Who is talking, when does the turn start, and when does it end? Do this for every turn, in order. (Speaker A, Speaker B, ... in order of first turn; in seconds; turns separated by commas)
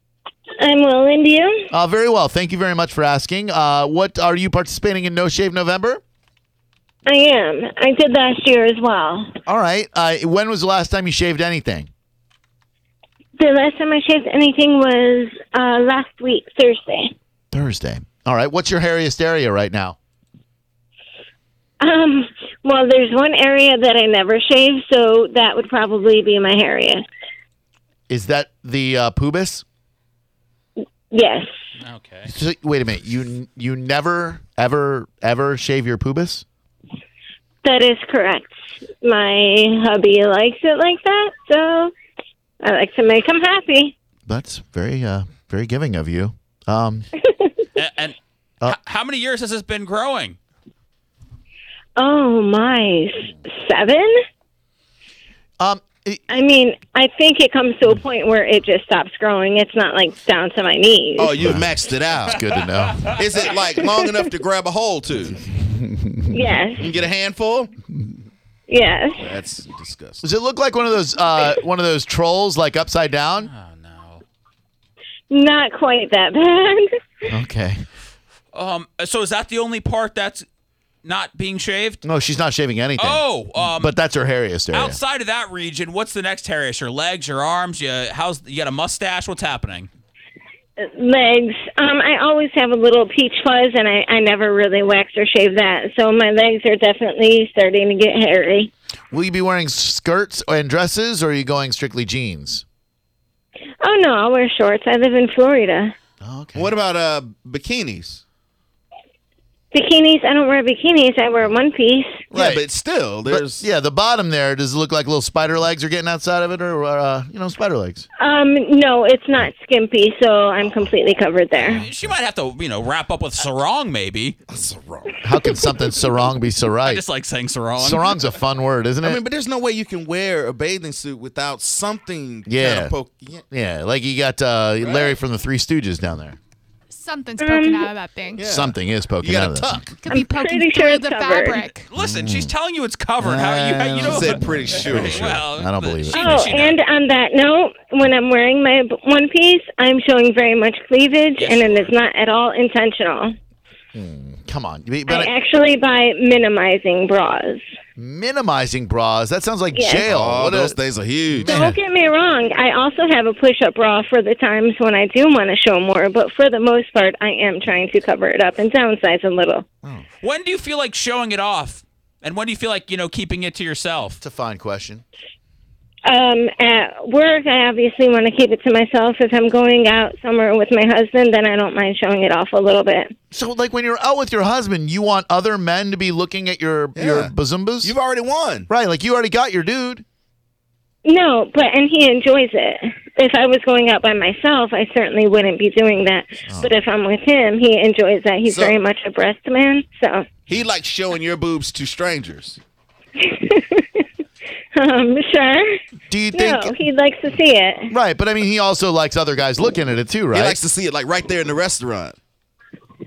Speaker A: 0.6-1.7, Speaker B: 1.7-6.0, Speaker A: 7.0-9.3, Speaker B: 9.4-11.9, Speaker A: 13.4-17.1, Speaker B: 17.5-20.0, Speaker A: 21.8-27.0, Speaker B: 28.1-29.6, Speaker A: 31.1-31.5, Speaker C: 31.8-32.3, Speaker B: 32.2-36.4, Speaker A: 37.6-41.9, Speaker A: 42.6-43.9, Speaker B: 44.3-47.0, Speaker A: 47.3-47.6, Speaker C: 47.8-50.4, Speaker A: 52.0-54.2, Speaker B: 55.6-56.2, Speaker A: 56.3-61.4, Speaker D: 61.2-62.4, Speaker B: 61.4-63.1, Speaker C: 62.9-63.5, Speaker D: 63.1-65.4, Speaker B: 65.7-66.3, Speaker A: 66.3-66.9, Speaker D: 66.8-67.7, Speaker A: 68.7-69.3, Speaker D: 69.2-70.2, Speaker B: 70.2-73.5, Speaker C: 73.4-74.2, Speaker A: 75.3-77.0, Speaker B: 77.3-77.8, Speaker C: 78.5-80.5, Speaker C: 81.0-82.0, Speaker B: 82.0-85.0, Speaker C: 83.0-83.9, Speaker C: 84.7-89.9, Speaker A: 90.8-98.7, Speaker B: 99.1-102.6, Speaker A: 103.8-106.0, Speaker B: 106.2-106.7, Speaker D: 106.5-108.2, Speaker A: 109.7-112.2, Speaker B: 112.3-112.6, Speaker D: 112.3-113.6, Speaker B: 113.2-118.0, Speaker A: 118.2-121.8, Speaker B: 121.6-121.9, Speaker C: 121.7-124.4, Speaker D: 124.5-125.2, Speaker B: 125.2-127.0, Speaker C: 126.8-128.2, Speaker B: 127.8-129.2, Speaker D: 129.0-133.4, Speaker B: 132.5-132.9, Speaker B: 133.5-136.4, Speaker D: 134.8-135.2, Speaker E: 136.9-138.5, Speaker A: 137.4-137.9, Speaker D: 138.3-139.8, Speaker B: 138.5-139.8, Speaker E: 140.0-141.9, Speaker A: 140.1-141.7, Speaker C: 141.9-146.8, Speaker B: 142.0-142.5, Speaker B: 143.2-146.2, Speaker D: 143.9-145.4, Speaker A: 146.1-153.3, Speaker C: 151.4-151.9, Speaker B: 153.9-155.3, Speaker A: 155.1-157.6, Speaker B: 158.0-160.8, Speaker A: 159.7-160.0, Speaker D: 160.0-161.5, Speaker B: 161.3-161.8, Speaker A: 161.5-169.7, Speaker C: 170.2-174.2, Speaker B: 174.2-175.0, Speaker A: 176.1-183.1, Speaker B: 183.3-187.9, Speaker D: 186.9-188.7, Speaker B: 188.7-190.0, Speaker A: 191.0-200.3, Speaker B: 196.4-196.8, Speaker D: 198.4-198.8, Speaker D: 200.5-202.6, Speaker A: 203.2-204.1, Speaker A: 204.7-207.9, Speaker B: 206.1-206.8, Speaker B: 207.9-210.6, Speaker D: 210.3-212.2